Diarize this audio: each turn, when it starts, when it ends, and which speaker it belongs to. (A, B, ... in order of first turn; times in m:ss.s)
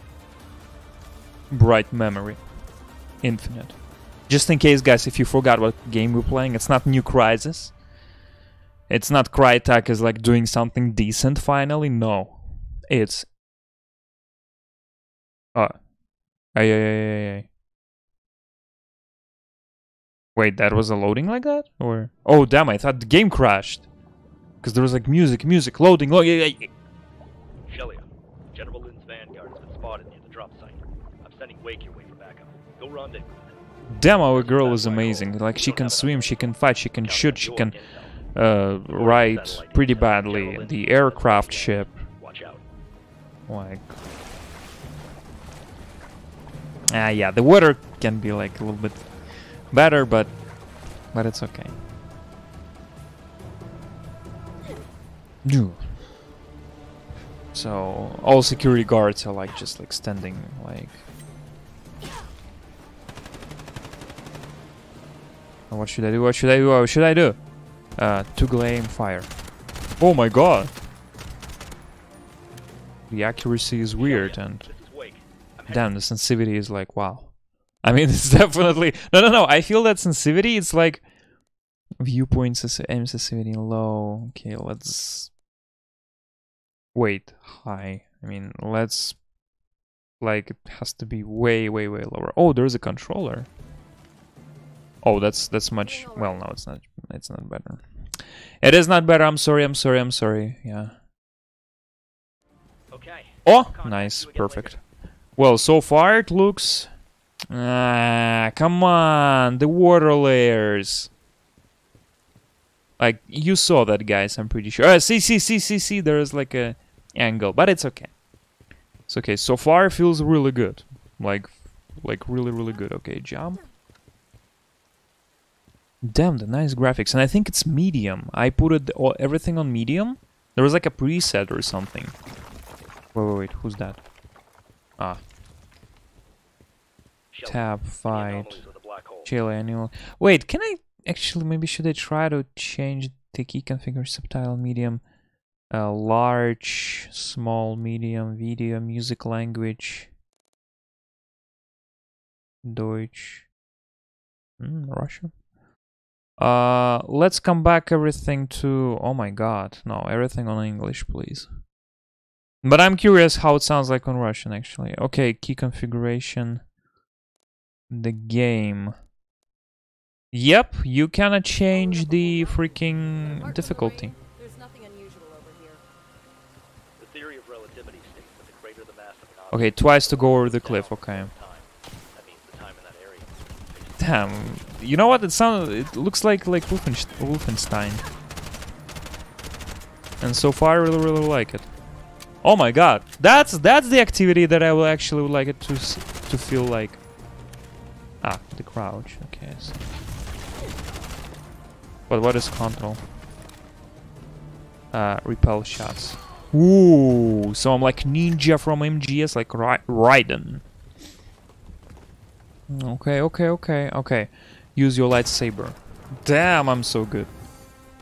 0:01.5-0:02.4 A
0:03.2-0:03.8 A
0:04.3-0:07.7 A
0:08.9-0:13.3 A
0:16.5-0:17.5 A
0:20.3-0:23.9 A
0:24.6-0:26.7 A
0:27.7-0:33.6 B
0:33.9-0:37.8 A
0:34.3-0:38.1 B
0:38.3-0:42.0 A
0:38.9-0:42.6 B
0:43.5-0:44.0 A
0:46.9-0:49.0 A
0:49.7-0:50.3 A
0:51.1-0:51.8 A
0:55.4-0:55.9 A
0:57.5-1:01.0 A
1:05.7-1:07.4 A
1:08.0-1:09.3 A
1:10.0-1:10.7 A
1:13.1-1:14.7 A
1:14.0-1:15.9 B
1:15.7-1:17.3 A
1:17.8-1:21.0 A
1:22.0-1:25.3 A
1:26.9-1:29.2 A
1:30.2-1:33.5 A
1:35.0-1:37.8 A
1:35.8-1:36.5 C
1:38.6-1:40.9 A
1:42.9-1:44.8 B
1:43.4-1:44.8 A
1:45.4-1:46.9 A
1:47.5-1:51.1 A
1:53.0-1:58.1 A
1:59.1-2:03.6 A
2:06.0-2:12.1 A
2:13.1-2:14.0 A
2:17.3-2:19.3 B
2:17.4-2:18.6 A
2:19.2-2:25.0 A
2:25.7-2:30.1 A
2:32.6-2:33.4 A
2:34.6-2:35.3 A
2:36.4-2:41.5 A
2:42.6-2:46.6 A
2:47.9-2:48.9 A
2:50.3-2:54.1 A
2:51.7-2:53.4 B
2:53.2-2:55.8 C
2:57.0-3:04.3 B
2:59.5-3:01.3 A
3:04.0-3:08.0 A
3:10.2-3:11.7 A
3:12.4-3:17.0 A
3:18.2-3:19.8 A
3:22.1-3:23.0 A
3:24.9-3:30.6 A
3:32.7-3:37.3 A